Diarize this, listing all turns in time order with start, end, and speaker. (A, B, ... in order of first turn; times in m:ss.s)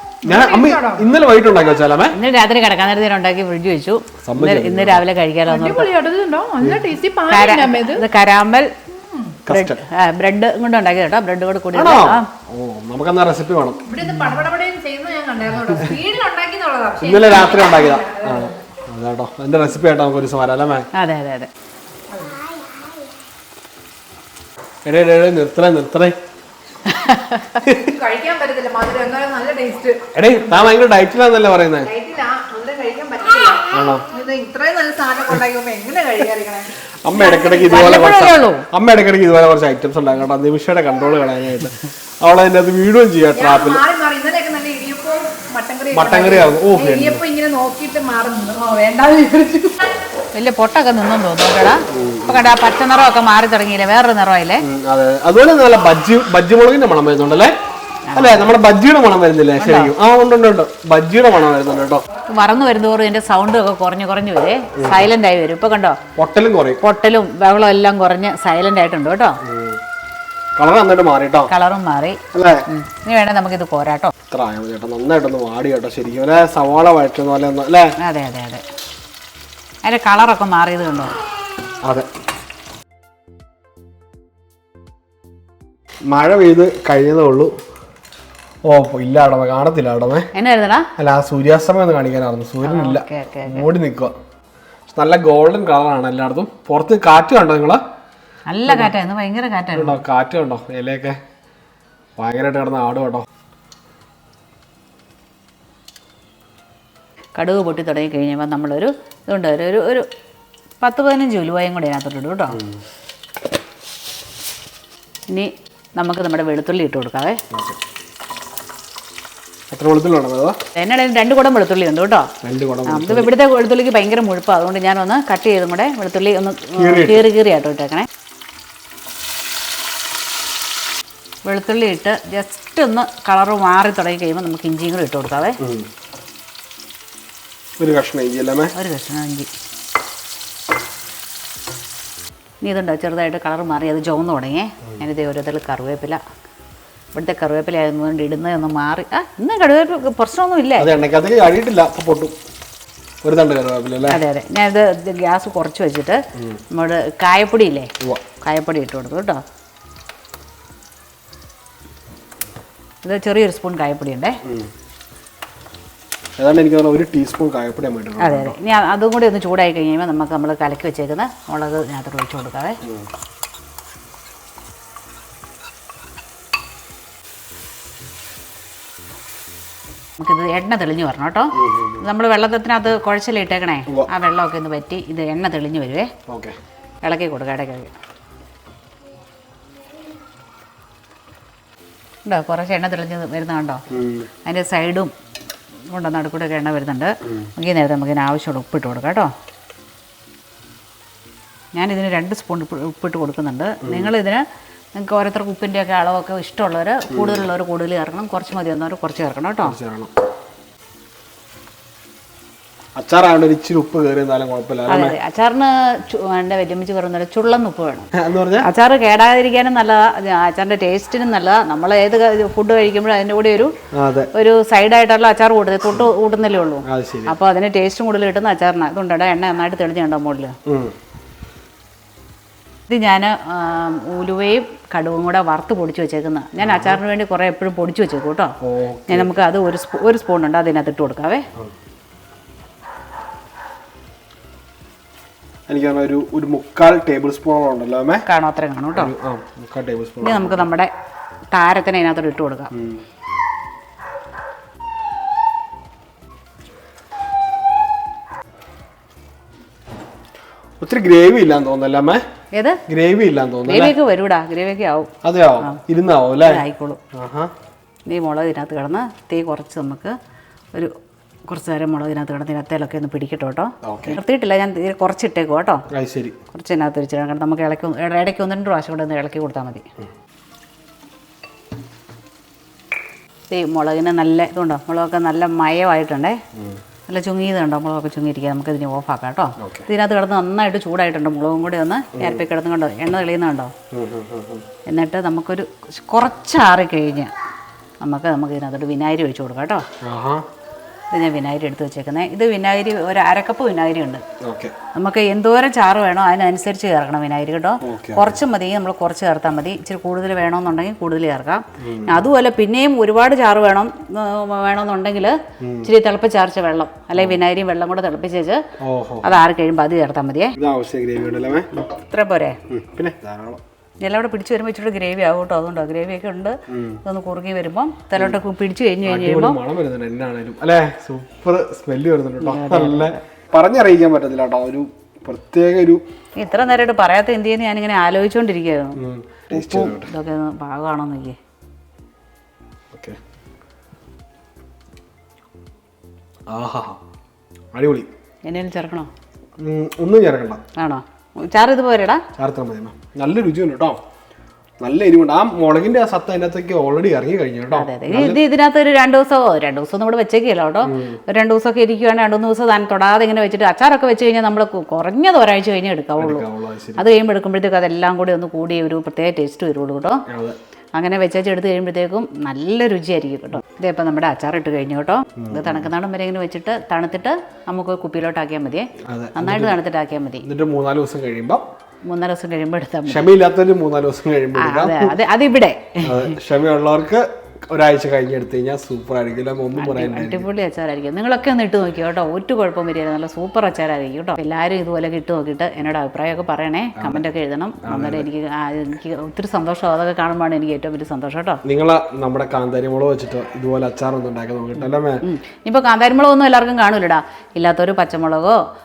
0:00.2-0:01.1 A
0:00.2-0:02.2 B
0:02.1-0:05.9 C
0:04.2-0:05.0 B
0:05.4-0:08.0 A
0:07.3-0:08.7 C
0:08.9-0:09.4 A
0:09.4-0:09.8 B
0:09.5-0:12.2 C
0:11.7-0:13.9 B
0:13.9-0:18.6 A
0:17.0-0:20.9 B
0:21.0-0:21.5 C
0:22.1-0:22.4 A
0:24.8-0:26.1 B
0:26.9-0:27.6 C
0:27.6-0:27.9 B
0:27.8-0:30.0 A
0:30.1-0:31.9 B
0:31.8-0:37.7 A
0:33.7-0:34.0 B
0:37.0-0:43.8 B
0:37.5-0:38.6 C
0:43.3-0:50.0 A
0:45.9-0:47.2 B
0:50.3-0:54.6 C
0:51.9-0:52.5 B
0:54.6-0:57.5 B
0:58.1-0:58.5 C
0:58.2-1:02.0 B
0:59.6-0:59.9 C
1:02.3-1:06.0 C
1:04.8-1:05.1 B
1:06.2-1:06.8 B
1:06.8-1:09.4 C
1:09.4-1:09.8 B
1:10.6-1:11.5 B
1:11.5-1:14.1 C
1:12.3-1:12.6 B
1:14.3-1:17.9 B
1:18.0-1:18.6 C
1:19.8-1:21.1 C
1:26.1-1:27.5 B
1:28.6-1:30.3 B
1:30.3-1:30.9 C
1:31.0-1:34.1 B
1:32.6-1:33.7 C
1:34.9-1:37.8 B
1:38.5-1:40.0 C
1:39.7-1:41.2 B
1:42.2-1:43.2 B
1:47.3-1:50.0 C
1:50.8-1:52.6 C
1:52.5-1:52.8 B
1:55.3-1:57.4 C
1:57.5-1:57.8 B
1:59.7-2:00.6 B
2:00.7-2:02.3 C
2:02.4-2:03.3 B
2:02.8-2:08.1 C
2:06.8-2:07.3 B
2:11.4-2:15.6 C
2:15.6-2:15.9 B
2:17.8-2:18.7 B
2:18.7-2:19.5 C
2:22.6-2:26.2 C
2:27.1-2:30.9 C
2:30.8-2:32.3 B
2:33.2-2:34.2 B
2:34.1-2:36.2 C
2:36.4-2:36.6 B
2:36.7-2:37.9 C
2:38.4-2:39.4 C
2:43.0-2:44.4 C
2:44.4-2:44.7 B
2:46.4-2:48.5 B
2:48.2-2:52.8 C
3:00.2-3:06.1 C
3:01.6-3:02.0 B
3:06.3-3:06.5 B
3:07.0-3:07.9 C
3:12.2-3:13.8 C
3:13.9-3:14.3 B
3:14.4-3:15.1 C
3:15.9-3:19.3 C
3:17.2-3:17.5 B
3:21.7-3:24.4 C
3:23.8-3:24.1 B
3:25.0-3:29.8 C
3:27.1-3:27.4 B
3:29.6-3:30.1 B
3:33.0-3:35.2 B
3:34.9-3:38.1 C
3:38.1-3:38.7 B
3:38.6-3:43.7 C
3:43.9-3:44.3 B
3:44.3-3:50.5 C
3:46.9-3:47.4 B
3:50.6-3:50.9 B
3:52.9-3:58.5 C
3:56.6-3:57.0 B
3:58.6-3:59.4 B
3:59.1-4:01.4 C
4:05.7-4:08.2 B
4:08.3-4:09.1 C
4:08.9-4:10.7 B
4:10.2-4:10.9 C
4:11.5-4:12.7 C
4:12.7-4:13.0 B
4:20.8-4:22.2 B
4:22.5-4:22.8 C
4:22.9-4:23.9 B
4:23.7-4:25.1 C
4:25.2-4:27.5 B
4:26.4-4:27.0 C
4:28.1-4:30.1 C
4:31.5-4:35.8 C
4:33.8-4:34.2 B
4:35.9-4:36.4 B
4:36.5-4:39.8 C
4:43.5-4:46.4 C
4:46.5-4:46.8 B
4:47.1-4:53.7 C
4:49.6-4:49.9 B
4:52.1-4:52.4 B
4:53.9-4:54.6 B
4:54.9-4:57.3 C
4:58.0-4:59.8 C
5:00.0-5:00.4 B
5:01.1-5:04.2 C
5:04.4-5:04.7 B
5:04.9-5:18.6 C
5:07.8-5:08.4 B
5:11.8-5:12.2 B
5:15.6-5:15.9 B
5:17.1-5:17.4 B
5:18.8-5:19.3 B
5:19.2-5:20.6 C
5:20.6-5:21.9 B
5:22.1-5:22.6 C
5:22.7-5:23.6 B
5:24.0-5:29.6 C
5:26.7-5:27.0 B
5:29.0-5:36.0 B
5:32.4-5:33.2 C
5:36.4-5:39.0 C
5:39.0-5:40.1 B
5:39.5-5:41.4 C
5:42.9-5:43.2 B
5:46.5-5:47.0 B
5:47.7-5:48.1 B
5:48.4-5:49.1 C
5:49.6-5:50.6 B
5:50.8-5:52.2 C
5:52.4-5:54.0 B
5:54.8-5:58.4 B
5:57.7-6:06.4 C
6:00.8-6:01.2 B
6:06.2-6:07.1 B
6:07.0-6:10.2 C
6:10.3-6:10.6 B
6:10.9-6:20.4 C
6:15.4-6:15.9 B
6:19.1-6:19.8 B
6:20.4-6:21.6 B
6:22.1-6:23.3 C
6:23.1-6:25.2 B
6:24.6-6:26.3 C
6:26.0-6:30.5 B
6:29.7-6:41.6 C
6:37.0-6:37.2 B
6:37.8-6:38.3 B
6:41.6-6:45.2 B
6:45.2-6:48.6 C